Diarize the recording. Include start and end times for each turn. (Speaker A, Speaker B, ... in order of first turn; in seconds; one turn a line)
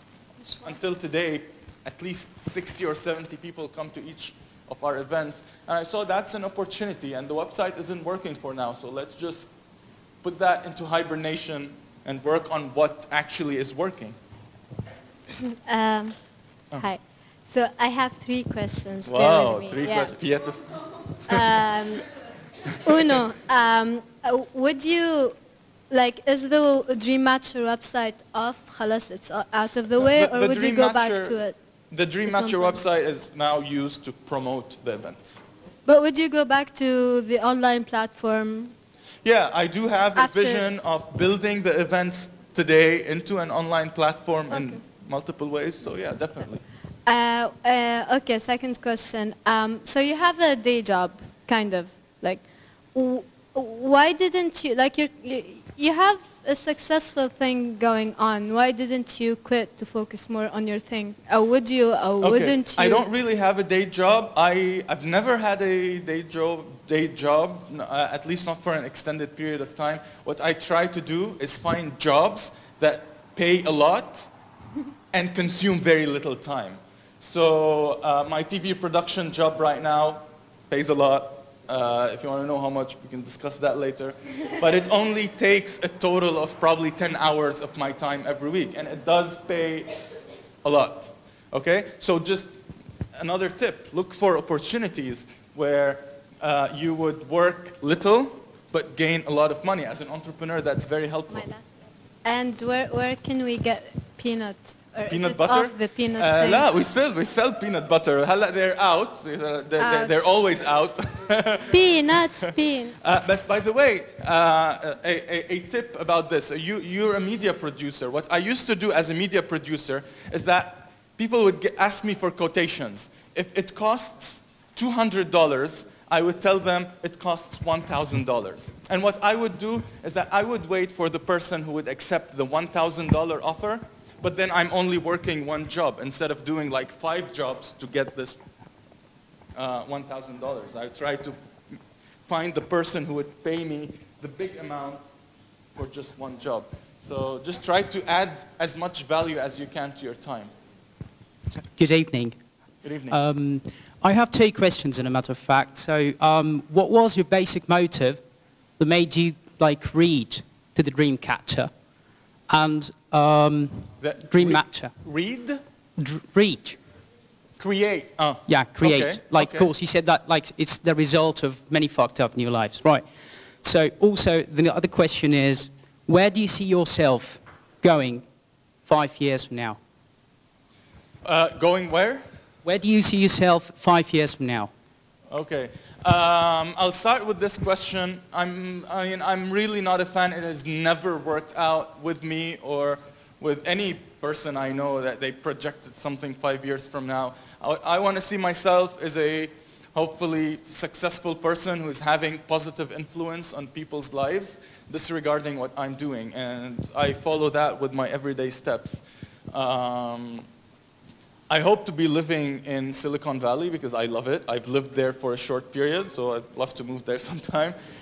Speaker A: 0.5-9.5
Speaker A: 10.2-14.2
Speaker B: 15.4-16.2
Speaker B: 16.8-20.2
Speaker A: 19.1-21.4
Speaker B: 21.3-22.1
Speaker B: 22.8-25.4
Speaker B: 25.9-31.6
Speaker A: 30.0-31.4
Speaker A: 31.9-35.4
Speaker B: 32.3-32.8
Speaker B: 35.9-38.7
Speaker A: 39.2-46.6
Speaker B: 40.2-40.7
Speaker B: 44.5-44.8
Speaker B: 47.1-63.1
Speaker A: 62.2-74.3
Speaker A: 75.1-90.0
Speaker A: 90.6-92.5
Speaker A: 93.2-101.5
Speaker B: 101.3-101.6
Speaker B: 102.2-106.7
Speaker A: 105.1-138.4
Speaker B: 109.8-110.3
Speaker B: 111.7-113.0
Speaker A: 139.6-141.4
Speaker A: 142.3-145.0
Speaker A: 145.8-150.5
Speaker C: 151.5-152.4
Speaker A: 152.8-153.2
Speaker C: 153.1-158.2
Speaker C: 158.8-161.7
Speaker C: 162.5-164.9
Speaker A: 164.0-165.6
Speaker C: 166.0-166.8
Speaker A: 167.6-169.7
Speaker C: 168.5-173.1
Speaker C: 173.6-178.3
Speaker C: 178.8-179.8
Speaker A: 181.2-182.2
Speaker C: 182.7-184.7
Speaker A: 185.3-210.5
Speaker A: 211.5-217.8